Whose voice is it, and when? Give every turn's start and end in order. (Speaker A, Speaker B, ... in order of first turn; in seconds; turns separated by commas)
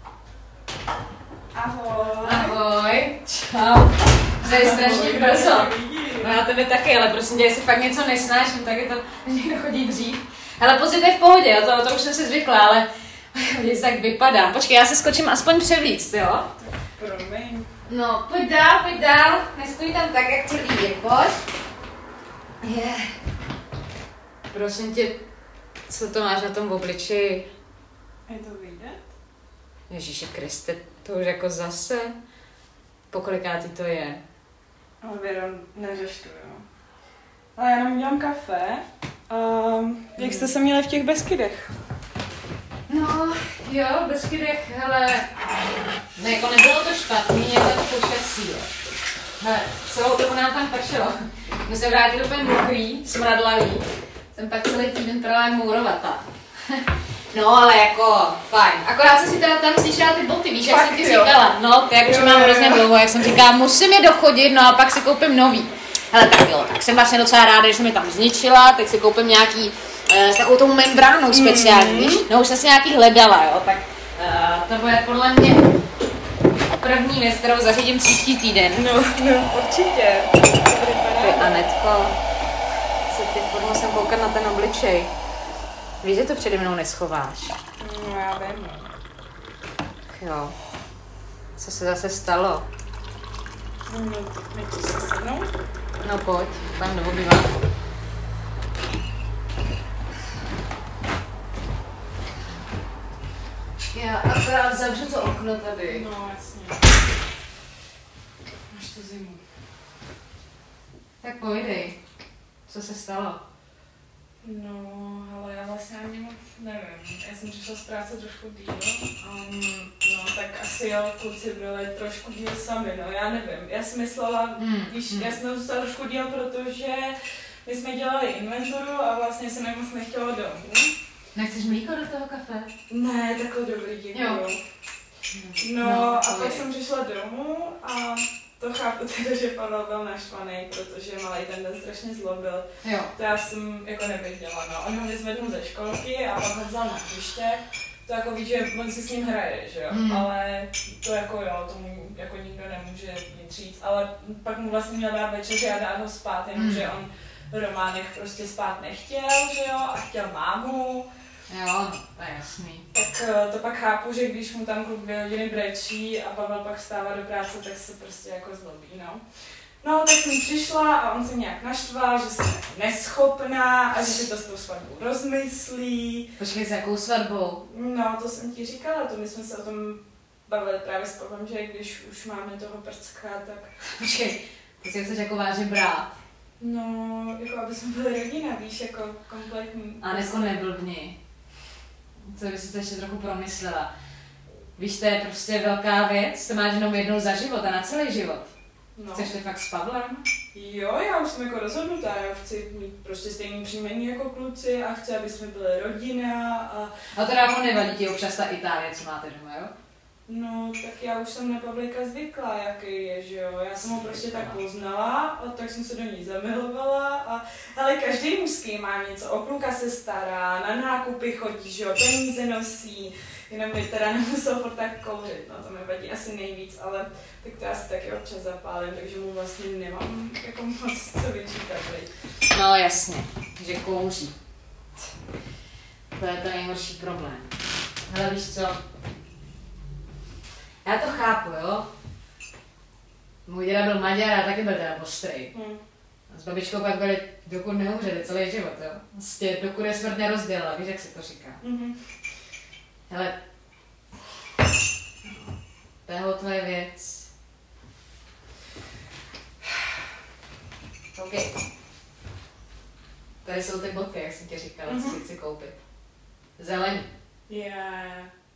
Speaker A: 1.5-2.6, Speaker B: 2.2-16.5, Speaker A: 4.5-6.4, Speaker A: 16.6-17.7, Speaker B: 17.9-21.4, Speaker B: 22.6-23.1, Speaker B: 24.5-25.2, Speaker B: 25.9-27.5, Speaker A: 28.3-29.1, Speaker B: 29.9-32.1, Speaker B: 33.1-34.2, Speaker A: 35.0-36.6, Speaker A: 37.5-41.8, Speaker B: 40.2-40.5, Speaker B: 42.9-45.3, Speaker B: 46.2-48.7, Speaker B: 49.4-56.2, Speaker B: 57.3-75.7, Speaker A: 60.6-61.4, Speaker A: 62.0-62.9, Speaker A: 71.3-72.2, Speaker B: 76.8-78.8, Speaker A: 78.8-81.6, Speaker B: 81.2-82.2, Speaker B: 83.1-85.1, Speaker B: 86.0-87.6, Speaker A: 87.8-89.0, Speaker B: 90.1-90.5, Speaker B: 91.6-92.7, Speaker A: 93.9-95.5, Speaker B: 96.0-97.5, Speaker B: 103.9-106.1, Speaker A: 105.9-106.9, Speaker A: 108.7-109.4, Speaker B: 111.2-112.0, Speaker B: 112.7-113.4, Speaker A: 114.4-130.9, Speaker B: 124.6-125.3, Speaker B: 131.3-132.7, Speaker A: 132.9-134.6, Speaker B: 134.1-134.4, Speaker B: 135.3-136.6, Speaker A: 135.6-161.1, Speaker B: 142.8-143.1, Speaker B: 149.9-150.3, Speaker B: 156.6-156.9, Speaker B: 161.5-162.8, Speaker A: 162.9-169.2, Speaker A: 169.8-176.3, Speaker B: 176.4-177.6, Speaker A: 177.7-183.7, Speaker B: 184.0-186.1, Speaker A: 186.6-190.6, Speaker B: 190.0-191.2, Speaker B: 192.3-193.9, Speaker B: 194.8-198.5, Speaker A: 198.9-199.3, Speaker B: 199.1-200.3, Speaker A: 200.5-206.9, Speaker B: 207.1-209.7, Speaker A: 210.3-232.1, Speaker B: 214.1-214.5, Speaker B: 232.5-234.3, Speaker B: 236.2-237.5, Speaker B: 238.1-238.8, Speaker B: 240.8-241.9, Speaker B: 243.5-245.5, Speaker A: 245.5-245.8, Speaker B: 246.3-251.6, Speaker A: 251.6-252.1, Speaker B: 253.1-253.3, Speaker B: 256.1-257.3, Speaker B: 261.1-261.6, Speaker B: 263.4-265.8, Speaker A: 264.9-265.2, Speaker B: 266.6-267.1, Speaker A: 267.5-268.3